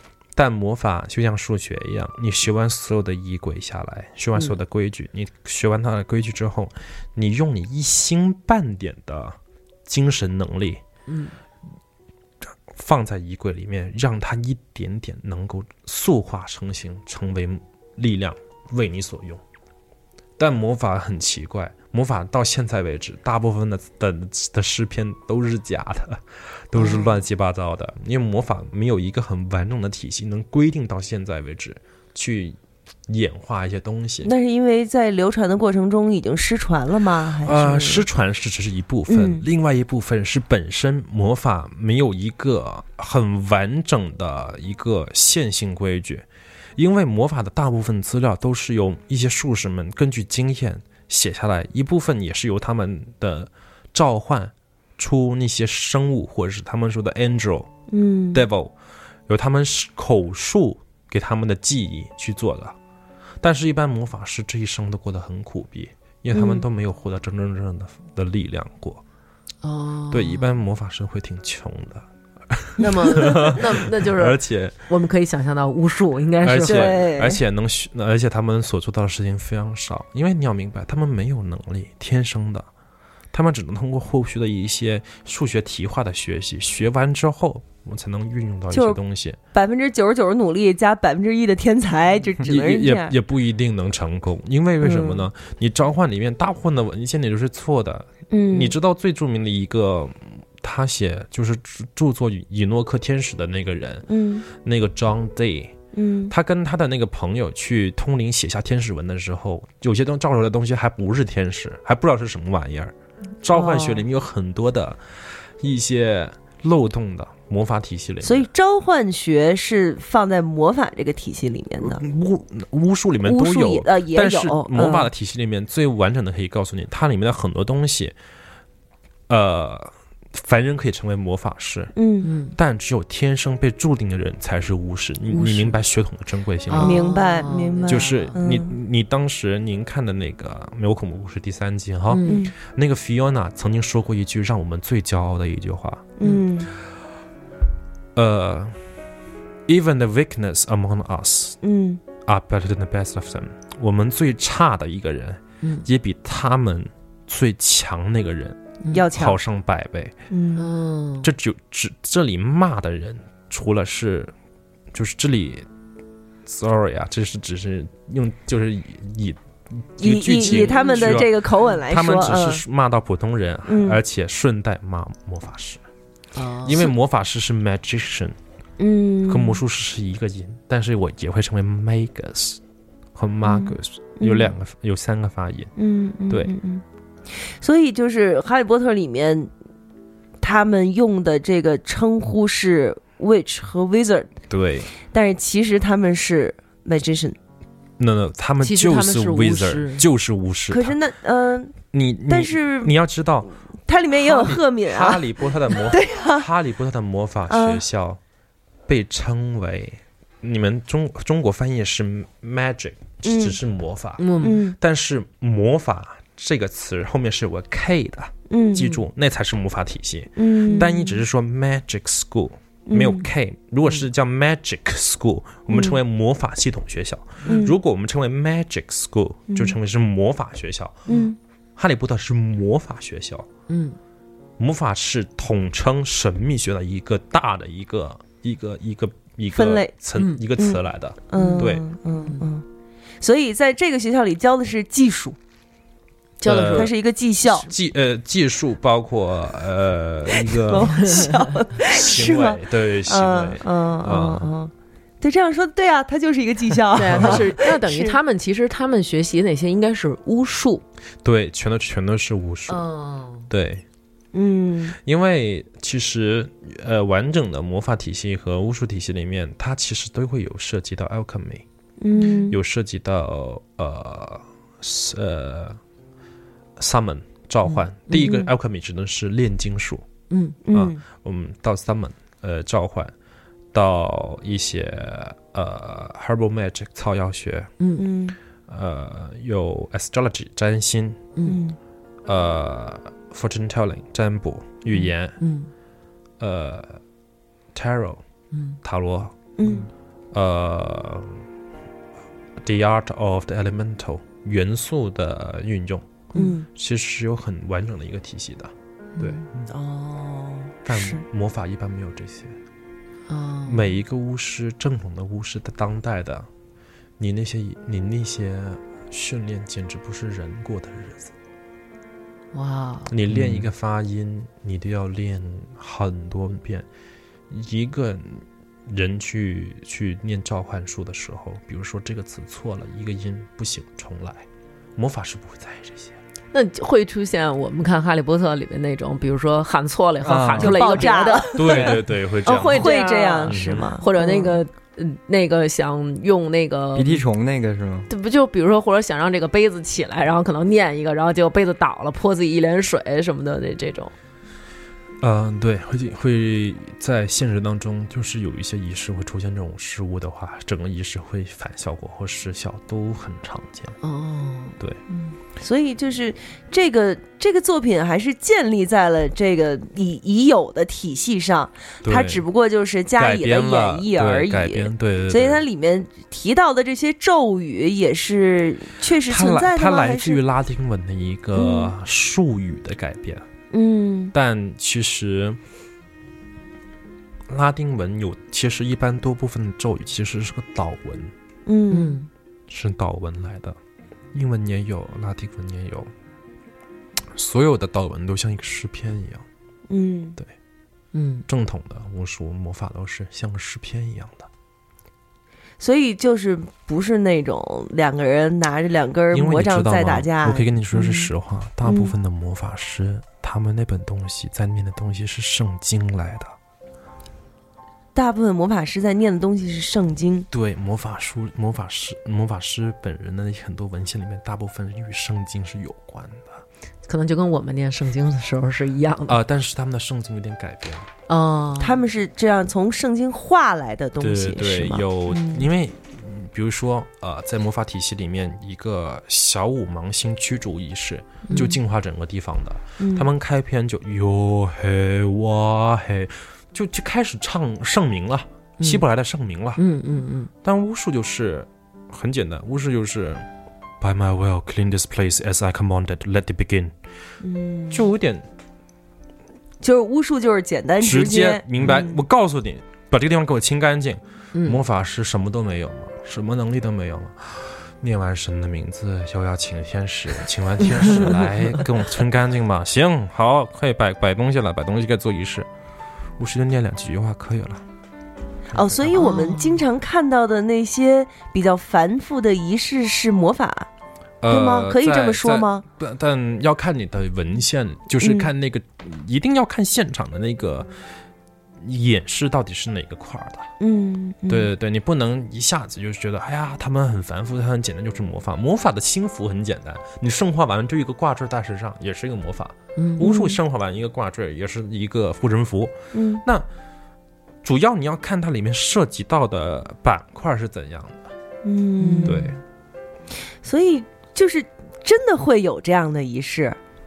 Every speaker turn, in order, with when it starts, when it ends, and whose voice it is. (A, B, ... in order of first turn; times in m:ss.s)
0:00.3-0:10.8 A
0:11.1-0:11.4 B
0:12.7-0:19.4 A
0:20.4-0:34.3 A
0:26.7-0:27.2 C
0:34.2-0:38.0 C
0:37.4-0:57.7 A
0:39.1-0:39.4 C
0:57.9-0:58.4 C
0:58.3-0:58.7 A
0:59.3-1:02.8 A
1:03.4-1:09.0 A
1:09.6-1:10.5 B
1:10.1-1:14.8 A
1:12.8-1:17.0 B
1:16.4-1:22.7 A
1:16.6-1:17.4 C
1:23.3-1:29.4 A
1:28.7-1:29.0 C
1:29.5-1:33.1 C
1:32.4-1:45.7 A
1:34.8-1:35.2 C
1:38.3-1:38.7 C
1:44.1-1:44.4 C
1:45.9-1:46.3 C
1:46.3-1:58.5 A
1:53.5-1:54.0 C
1:58.2-2:02.0 C
2:01.8-2:08.2 A
2:03.2-2:05.1 C
2:09.3-2:11.9 A
2:12.0-2:12.3 C
2:12.2-2:12.5 B
2:12.5-2:17.1 A
2:15.3-2:15.7 B
2:16.7-2:18.4 B
2:16.8-2:18.7 C
2:17.8-2:26.1 A
2:22.1-2:22.4 B
2:22.2-2:22.5 C
2:26.2-2:26.7 C
2:28.1-2:28.8 A
2:29.6-2:31.6 A
2:31.6-2:32.0 C
2:32.2-2:40.1 A
2:38.9-2:39.4 C
2:40.3-2:40.6 C
2:40.6-2:41.3 B
2:41.2-2:44.3 A
2:44.9-2:45.7 A
2:46.4-2:55.8 A
2:50.0-2:52.6 C
2:50.5-2:51.2 B
2:53.7-2:54.0 C
2:56.4-2:56.8 B
2:56.6-2:58.4 A
2:58.8-2:59.6 C
2:59.3-3:02.6 A
3:03.1-3:05.7 A
3:03.4-3:04.5 C
3:05.8-3:06.8 C
3:07.5-3:09.5 C
3:10.4-3:14.3 C
3:14.5-3:14.9 A
3:15.1-3:17.4 C
3:18.0-3:21.0 A
3:18.6-3:20.0 B
3:20.7-3:21.8 C
3:21.9-3:23.5 A
3:22.3-3:23.0 C
3:23.9-3:26.5 C
3:24.2-3:28.2 A
3:27.5-3:27.8 C
3:28.9-3:51.1 A
3:33.2-3:33.6 C
3:34.2-3:34.6 B
3:34.4-3:34.8 C
3:38.5-3:38.8 C
3:40.4-3:41.0 C
3:40.7-3:41.0 B
3:42.9-3:43.2 C
3:45.7-3:46.0 C
3:47.5-3:47.8 C
3:49.5-3:49.8 C
3:51.1-3:51.4 C
3:51.8-3:53.5 A
3:53.7-3:54.0 B
3:54.6-4:01.8 A
3:59.5-3:59.9 C
4:00.2-4:00.4 B
4:00.6-4:02.6 C
4:01.3-4:02.5 B
4:03.2-4:05.4 C
4:06.4-4:06.9 B
4:06.4-4:06.9 A
4:06.7-4:07.7 C
4:07.5-4:11.0 A
4:10.4-4:18.2 C
4:10.9-4:11.5 B
4:11.9-4:14.5 A
4:16.9-4:20.8 B
4:21.2-4:22.8 A
4:22.7-4:23.5 B
4:23.5-4:23.8 A
4:24.3-4:25.0 C
4:25.0-4:31.6 A
4:32.0-4:32.6 C
4:32.1-4:32.5 B
4:32.5-4:35.8 A
4:36.8-4:40.0 A
4:38.1-4:38.5 C
4:40.3-4:40.6 B
4:40.6-4:41.0 C
4:40.7-4:43.1 A
4:43.7-4:47.7 A
4:47.8-4:48.0 B
4:48.0-4:48.4 C
4:48.7-4:51.2 A
4:51.4-4:51.8 C
4:52.2-4:55.4 A
4:54.9-4:55.7 B
4:56.4-4:57.0 A
4:57.7-4:58.2 A
4:58.8-4:59.4 A
4:59.6-4:59.9 C
5:00.3-5:01.4 A
5:02.6-5:06.1 A
5:06.3-5:06.7 C
5:06.7-5:09.4 A
5:09.7-5:11.2 C
5:10.8-5:12.6 A
5:13.3-5:14.0 B
5:13.6-5:16.5 A
5:17.2-5:21.3 A
5:22.5-5:23.1 B
5:23.1-5:26.9 A
5:23.3-5:23.6 D
5:27.5-5:36.2 A
5:36.5-5:41.6 B
5:40.2-5:41.1 D
5:40.6-5:44.6 C
5:41.5-5:42.9 A
5:42.6-5:47.2 B
5:43.4-5:43.9 A
5:46.9-5:48.1 D
5:48.1-5:54.1 B
5:55.2-6:04.0 A
6:04.0-6:04.8 B
6:05.1-6:20.4 C
6:12.0-6:12.4 A
6:13.2-6:15.6 A
6:19.2-6:23.4 A
6:21.5-6:21.9 C
6:23.7-6:24.3 C
6:24.3-6:25.6 A
6:27.5-6:31.3 A
6:31.6-6:32.2 C
6:31.9-6:32.3 B
6:32.7-6:33.8 A
6:34.3-6:36.1 A
6:37.3-6:39.4 A
6:39.9-6:40.4 C
6:41.1-6:41.4 B
6:41.5-6:44.5 A
6:45.8-6:51.3 C
6:49.3-6:56.5 A
6:51.8-6:52.1 C
6:58.1-7:00.5 C
7:00.5-7:06.6 A
7:07.1-7:09.4 B
7:09.3-7:11.1 A
7:11.3-7:12.0 B
7:11.8-7:15.7 C
7:14.2-7:29.8 A
7:21.5-7:21.7 B
7:23.0-7:23.3 C
7:29.8-7:30.5 B
7:30.6-7:33.4 A
7:34.0-7:36.9 A
7:37.4-7:38.1 C
7:37.9-7:38.5 A
7:39.8-7:42.2 C
7:41.0-7:55.7 A
7:44.5-7:44.8 B
7:51.0-7:51.4 B
7:56.4-7:57.8 A
7:58.7-7:59.4 A
7:58.7-8:03.9 C
7:59.2-7:59.8 B
8:04.4-8:10.9 A
8:04.5-8:05.8 C
8:08.2-8:08.5 C
8:11.8-8:13.7 A
8:13.8-8:14.7 C
8:14.5-8:26.7 A
8:23.0-8:23.3 B
8:23.2-8:23.5 C
8:26.1-8:26.4 C
8:27.6-8:31.3 A
8:31.6-8:32.5 C
8:32.0-8:32.4 B
8:32.2-8:32.6 A
8:33.6-8:36.8 C